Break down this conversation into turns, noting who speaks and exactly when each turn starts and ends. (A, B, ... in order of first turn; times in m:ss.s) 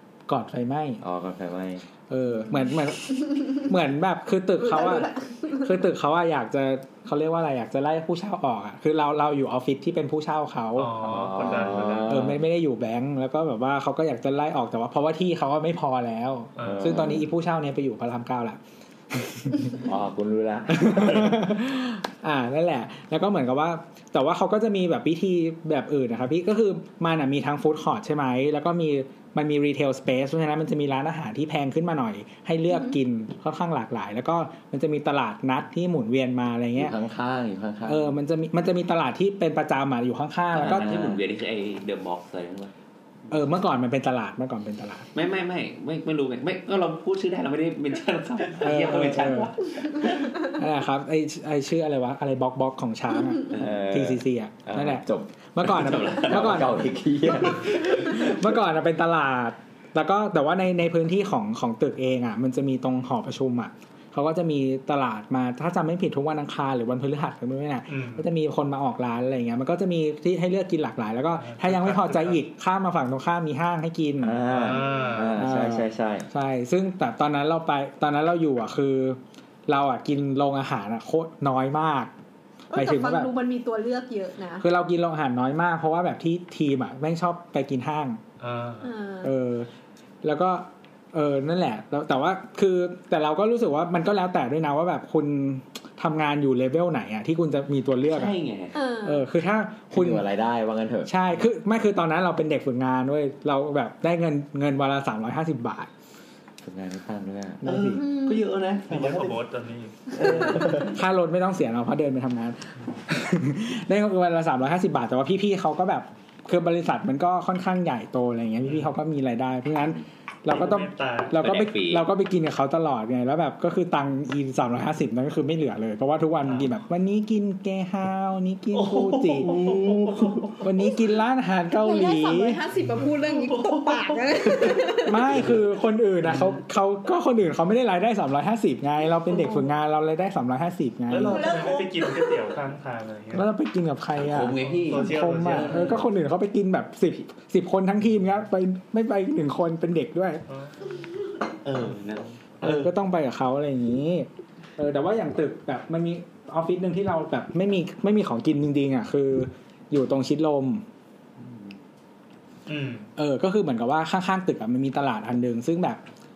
0:00.3-0:01.0 A
0:01.0-0:01.8 B
0:02.1-0:10.9 A
0:04.6-0:05.7 C
0:10.8-0:12.0 D
0:11.0-0:12.4 B
0:11.0-0:12.1 E
0:12.1-0:18.6 A
0:16.6-0:16.9 D
0:16.6-0:17.3 B
0:19.1-0:19.8 A
0:19.8-0:21.4 B
0:20.7-0:37.0 A
0:32.7-0:33.0 C
0:36.8-0:38.2 B
0:37.8-0:41.0 A
0:40.5-0:42.7 E
0:40.5-0:41.2 B
0:43.3-0:45.1 A
0:45.1-0:50.5 E
0:48.6-0:49.5 A
0:50.4-0:56.8 A
0:53.5-0:53.8 E
0:53.5-0:58.3 B
0:55.6-0:58.2 E
0:57.5-1:14.4 A
1:07.9-1:08.2 D
1:11.4-1:12.4 D
1:14.2-1:16.3 B
1:14.5-1:15.4 D
1:15.4-1:22.1 A
1:22.7-1:24.6 C
1:22.7-1:23.3 A
1:24.6-1:28.2 A
1:28.4-1:28.9 D
1:28.8-1:29.3 C
1:29.2-1:29.7 A
1:30.2-1:38.4 A
1:38.1-1:38.8 E
1:38.7-1:39.2 C
1:39.0-1:40.3 A
1:39.9-1:41.2 B
1:41.0-1:45.9 A
1:46.6-1:47.6 B
1:47.6-1:48.0 A
1:47.6-1:49.4 E
1:48.0-1:48.5 C
1:48.9-1:49.9 D
1:50.1-1:50.9 E
1:50.2-1:50.8 B
1:50.8-2:12.6 A
2:00.5-2:01.3 D
2:01.4-2:02.0 E
2:08.7-2:10.6 D
2:11.7-2:15.3 C
2:12.8-2:14.9 D
2:15.0-2:21.5 A
2:16.2-2:16.6 D
2:19.3-2:19.7 C
2:21.1-2:23.4 D
2:21.3-2:22.4 C
2:23.3-2:30.4 A
2:24.2-2:26.0 E
2:24.6-2:26.0 D
2:30.5-2:31.0 D
2:31.6-2:32.9 E
2:32.6-2:40.8 A
2:41.4-2:41.7 E
2:42.7-2:43.1 D
2:43.2-2:46.0 A